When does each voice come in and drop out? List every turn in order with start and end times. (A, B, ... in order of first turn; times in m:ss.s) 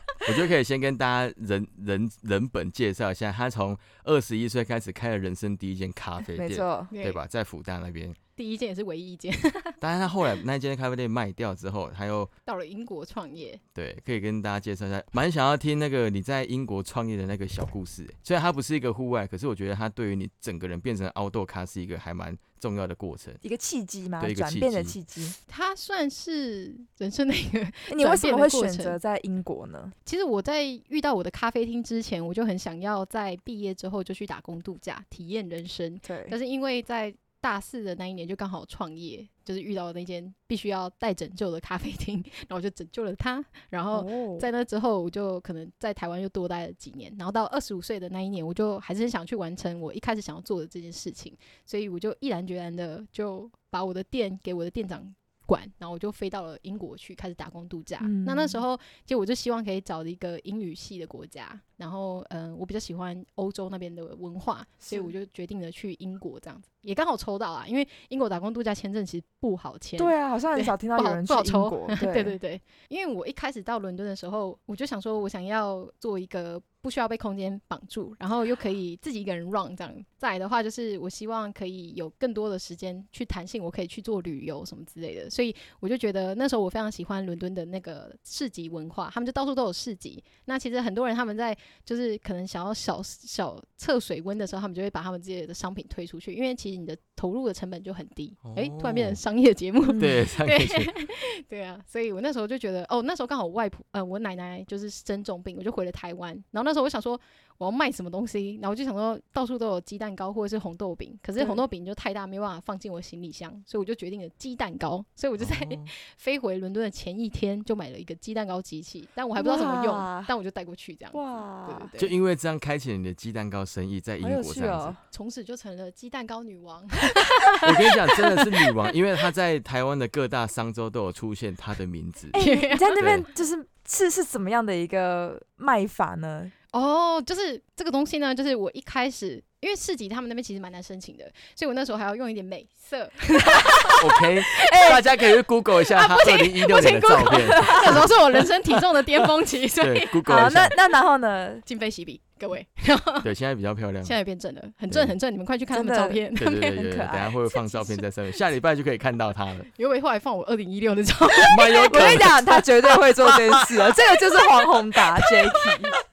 0:00.2-0:08.2 A
0:06.4-0:06.9 B
0:06.9-0:07.2 C
0:08.4-0:09.8 C
0:09.8-0:12.3 A
0:12.5-0:13.6 C
0:13.7-0:23.4 A
0:23.4-0:25.4 B
0:24.2-0:25.0 A
0:25.5-0:29.0 C
0:27.9-0:29.9 B
0:30.0-2:02.1 C
0:36.0-0:36.3 B
0:43.9-0:44.4 B
0:58.0-0:58.6 B
1:04.9-1:05.1 B
1:10.0-1:12.4 B
1:38.4-1:39.2 A
1:40.0-1:40.9 A
1:55.4-1:55.9 A
1:59.3-2:00.3 B
2:01.1-2:01.9 B
2:02.0-2:05.0 A
2:04.2-2:05.0 B
2:05.1-2:07.6 C
2:07.6-2:12.4 A
2:12.3-2:16.5 B
2:12.3-2:13.0 C
2:13.0-2:13.2 A
2:16.7-2:24.8 C
2:24.0-2:28.1 A
2:24.6-2:25.0 B
2:25.9-2:30.2 C
2:27.5-2:27.9 B
2:29.8-2:30.7 A
2:30.2-2:31.6 B
2:31.6-2:33.3 C
2:33.2-2:34.1 A
2:34.0-2:36.8 C
2:34.9-2:35.1 A
2:35.7-2:37.4 B
2:36.4-2:39.7 A
2:39.8-2:42.6 C
2:41.4-2:42.6 A
2:41.9-2:46.0 B